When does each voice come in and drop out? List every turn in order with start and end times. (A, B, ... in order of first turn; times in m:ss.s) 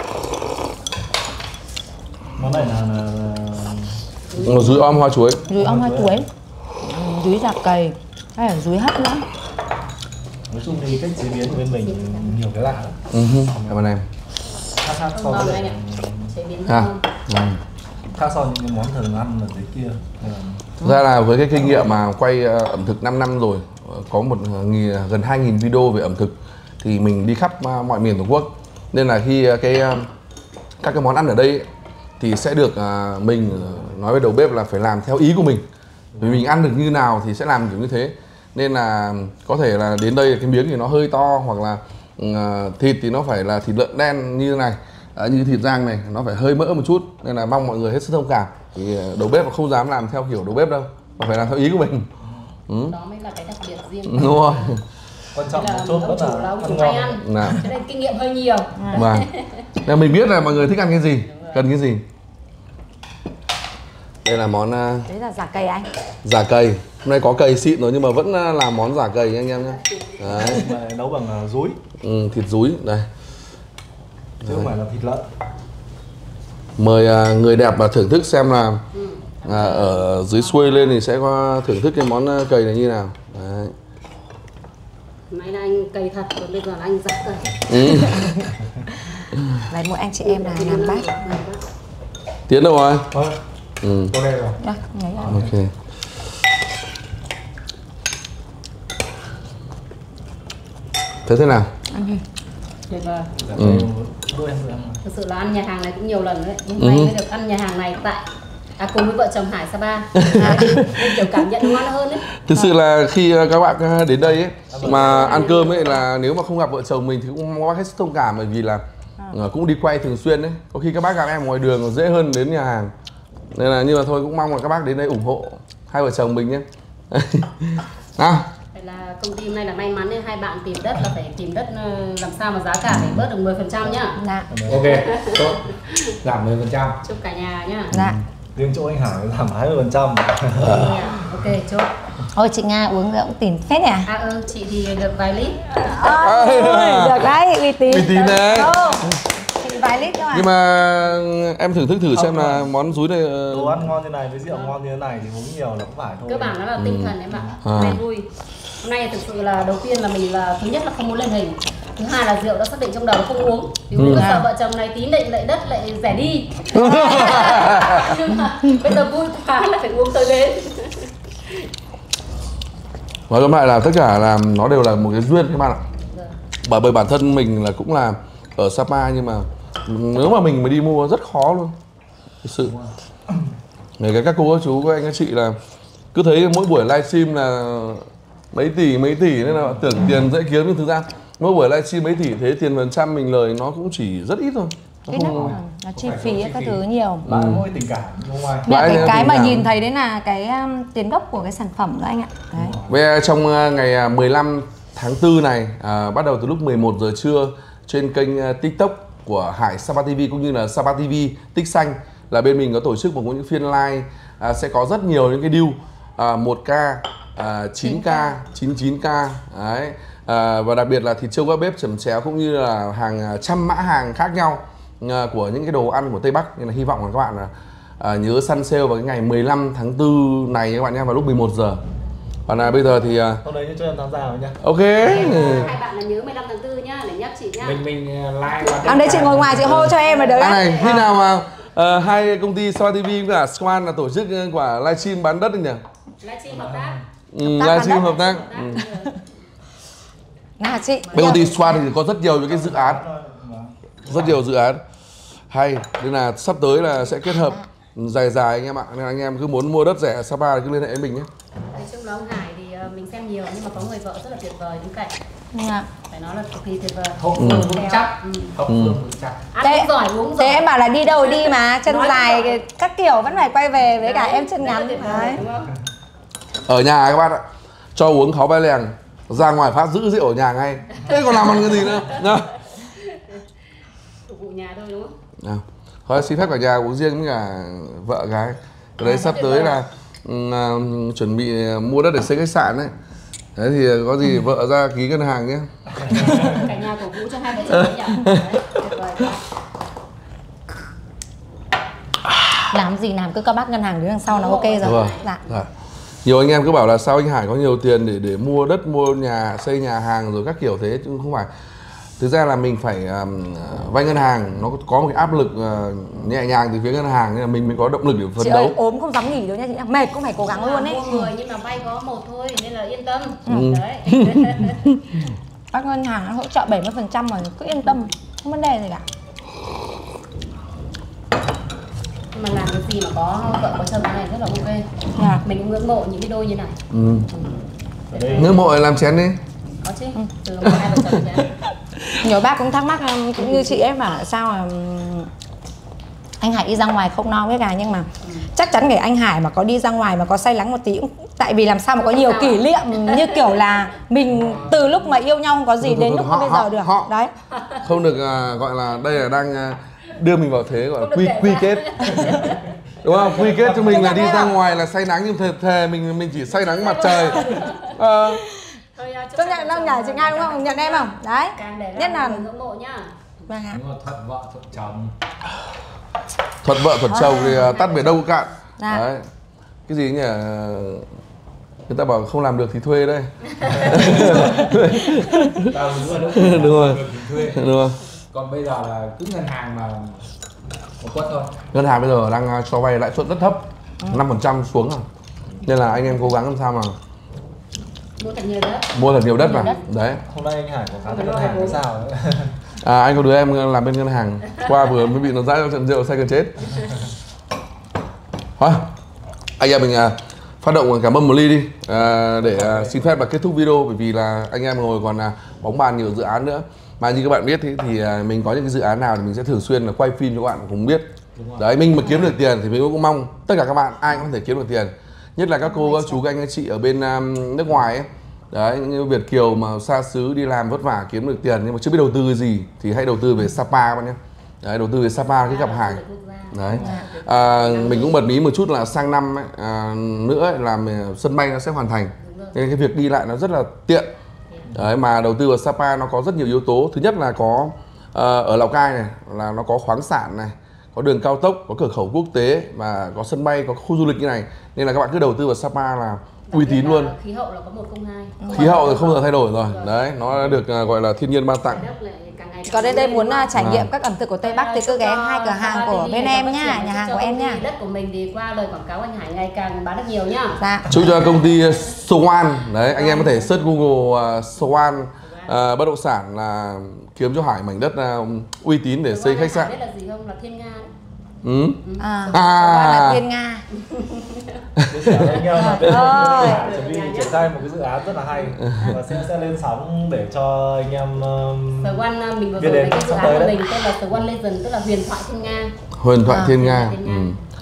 0:02.4-0:04.4 A
0:04.3-0:04.9 B
0:04.4-0:05.4 C
0:05.5-0:06.2 A
0:05.5-0:06.3 D
0:06.8-0:09.3 D
0:10.5-0:12.9 A
0:11.6-0:12.4 B
0:13.1-0:14.0 C
0:13.5-0:13.8 A
0:14.8-0:16.3 A
0:15.1-0:17.0 B
0:16.7-0:17.6 C
0:18.1-0:20.8 A
0:20.8-0:30.1 C
0:21.5-0:22.0 A
0:30.8-0:31.7 C
0:32.2-0:35.6 C
0:36.2-0:52.1 C
0:52.7-0:53.0 C
0:52.9-0:54.7 B
0:54.1-0:54.8 C
0:55.3-0:57.2 A
0:55.4-0:59.6 B
0:57.2-0:57.6 C
0:58.8-0:59.0 D
0:58.9-0:59.2 C
0:59.8-1:02.0 C
1:01.2-1:01.6 B
1:04.2-1:05.1 C
1:05.1-1:05.9 D
1:06.2-1:10.6 C
1:09.9-1:10.4 B
1:10.3-1:11.8 A
1:12.0-1:13.1 C
1:14.4-1:15.2 A
1:16.8-1:18.8 C
1:18.9-1:21.0 B
1:19.4-1:23.7 C
1:25.3-1:28.2 B
1:27.7-1:28.2 C
1:28.1-1:28.4 D
1:29.3-1:29.6 C
1:29.7-1:31.1 D
1:30.2-1:31.6 B
1:32.5-1:33.1 C
1:33.8-1:34.1 C
1:34.1-1:34.6 E
1:34.6-1:35.5 D
1:35.2-1:35.7 C
1:41.2-1:41.7 C
1:41.9-1:42.2 D
1:42.9-1:43.3 B
1:43.4-1:45.0 A
1:43.5-1:43.9 C
1:45.0-1:48.3 B
1:46.8-1:47.1 C
1:48.8-1:52.3 B
1:50.1-1:51.4 C
1:50.4-1:50.8 D
1:52.3-2:02.9 C
1:54.7-1:55.3 A
1:54.8-1:56.0 B
2:03.5-2:08.4 C
2:08.7-2:14.2 B
2:12.9-2:13.2 C
2:14.2-2:14.5 D
2:14.5-2:14.9 A
2:14.6-2:17.0 E
2:14.9-2:15.4 B
2:17.0-2:17.9 B
2:17.9-2:18.2 D
2:17.9-2:18.2 C
2:18.5-2:21.3 A
2:20.6-2:20.9 C
2:20.6-2:21.9 B
2:22.3-2:24.1 D
2:24.0-2:25.7 B
2:25.8-2:30.5 D
2:26.2-2:29.2 C
2:28.0-2:28.4 B
2:30.3-2:33.9 C
2:32.1-2:32.7 A
2:33.5-2:36.6 A
2:34.5-2:34.8 B
2:36.3-2:38.3 B
2:36.8-2:38.0 C
2:38.8-2:51.6 B
2:43.9-2:44.3 C
2:46.7-2:48.2 C
2:53.3-2:55.8 C
2:55.9-2:56.3 B
2:56.6-3:01.8 C
3:02.4-3:02.7 C
3:04.0-3:05.6 C
3:06.1-3:15.5 C
3:15.1-3:17.3 D
3:15.3-3:16.8 E
3:17.2-3:18.6 A
3:17.3-3:17.6 C
3:18.2-3:18.9 E
3:18.6-3:19.6 C
3:18.7-3:22.8 D
3:22.6-3:22.9 E
3:22.9-3:51.8 C
3:37.8-3:38.3 D
3:52.4-3:53.4 C
3:52.5-3:53.0 B
3:53.4-3:54.6 A
3:54.6-3:55.7 C
3:55.0-3:57.8 B
3:55.1-3:55.7 E
3:57.6-4:00.0 E
3:58.8-4:01.1 D
4:00.0-4:00.9 B
4:00.4-4:05.8 C
4:06.2-4:07.0 B
4:06.5-4:06.9 A
4:07.3-4:08.8 C
4:07.4-4:08.2 D
4:07.7-4:09.3 B
4:10.6-4:11.6 D
4:10.6-4:11.7 B
4:11.1-4:13.0 C
4:12.4-4:14.4 A
4:14.0-4:14.8 C
4:15.5-4:21.3 C
4:17.2-4:17.6 D
4:21.7-4:25.1 B
4:25.5-4:25.9 D
4:26.0-4:28.6 B
4:27.2-4:29.4 E
4:27.4-4:27.7 C
4:28.7-4:29.0 C
4:29.5-4:32.6 B
4:29.6-4:35.4 D
4:33.8-4:35.7 B
4:36.7-4:42.5 C
4:41.0-4:43.4 B
4:44.2-4:45.1 B
4:45.4-4:52.9 C
4:49.0-4:49.8 B
4:53.6-4:55.7 C
4:56.0-4:56.6 A
4:56.1-4:59.4 B
4:57.7-4:58.4 C
5:02.7-5:05.4 D
5:04.3-5:05.6 B
5:04.8-5:05.7 C
5:06.2-5:11.5 C
5:12.2-5:18.8 C
5:18.4-5:21.3 D
5:20.4-5:25.2 B
5:23.5-5:25.2 C
5:25.7-5:29.0 D
5:32.3-5:34.9 B
5:35.2-5:35.4 D
5:35.4-5:36.8 B
5:36.9-5:37.3 C
5:37.3-5:38.6 B
5:38.1-5:38.5 A
5:38.4-5:39.4 C
5:39.8-5:41.5 B
5:42.2-5:45.3 D
5:43.4-5:43.7 B
5:46.4-5:57.3 D
5:52.0-5:53.6 B
5:54.4-5:54.7 E
5:55.8-5:57.1 C
5:57.5-5:57.8 B
5:57.8-6:02.3 C
6:01.0-6:04.6 B
6:03.0-6:08.4 C
6:03.3-6:04.0 A
6:03.8-6:04.6 D
6:06.5-6:08.0 B
6:08.9-6:13.1 B
6:09.4-6:12.5 D
6:13.5-6:13.8 D
6:13.7-6:15.1 E
6:16.6-6:19.3 C
6:17.1-6:17.7 D
6:17.2-6:18.5 B
6:18.8-6:19.0 D
6:19.9-6:21.0 C
6:21.9-6:25.7 C
6:23.6-6:24.8 B
6:23.9-6:24.6 E
6:25.7-6:27.7 E
6:26.3-6:28.0 C
6:28.3-6:30.2 E
6:31.0-6:31.6 E
6:31.7-6:35.0 C
6:35.6-6:37.0 C
6:38.2-6:39.9 B
6:38.9-6:40.2 C
6:40.2-6:42.6 A
6:41.0-6:41.8 B
6:42.8-6:46.7 C
6:48.6-6:48.9 C
6:49.6-7:16.0 C
6:52.6-6:52.9 E
7:01.4-7:02.3 E
7:05.6-7:06.2 D
7:15.3-7:18.2 B
7:16.5-7:24.1 C
7:22.2-7:22.6 B
7:24.7-7:37.1 C
7:36.5-7:40.1 B
7:38.4-7:38.8 D
7:38.5-7:41.9 C
7:40.3-7:40.6 A
7:41.7-7:43.5 B
7:42.6-7:47.6 D
7:43.5-7:43.9 C
7:44.4-7:52.0 B
7:50.6-7:51.1 D
7:50.9-7:59.7 C
7:52.7-7:53.6 B
7:55.2-7:55.6 B
7:59.1-8:00.9 B
8:01.4-8:03.2 C
8:01.8-8:02.6 B
8:02.0-8:03.6 D
8:03.8-8:04.6 B
8:04.8-8:05.4 C
8:04.9-8:13.8 A
8:05.4-8:07.6 B
8:05.5-8:06.7 D
8:08.6-8:09.0 C
8:11.8-8:15.7 B
8:16.0-8:17.4 C
8:16.2-8:16.5 D
8:16.4-8:17.4 B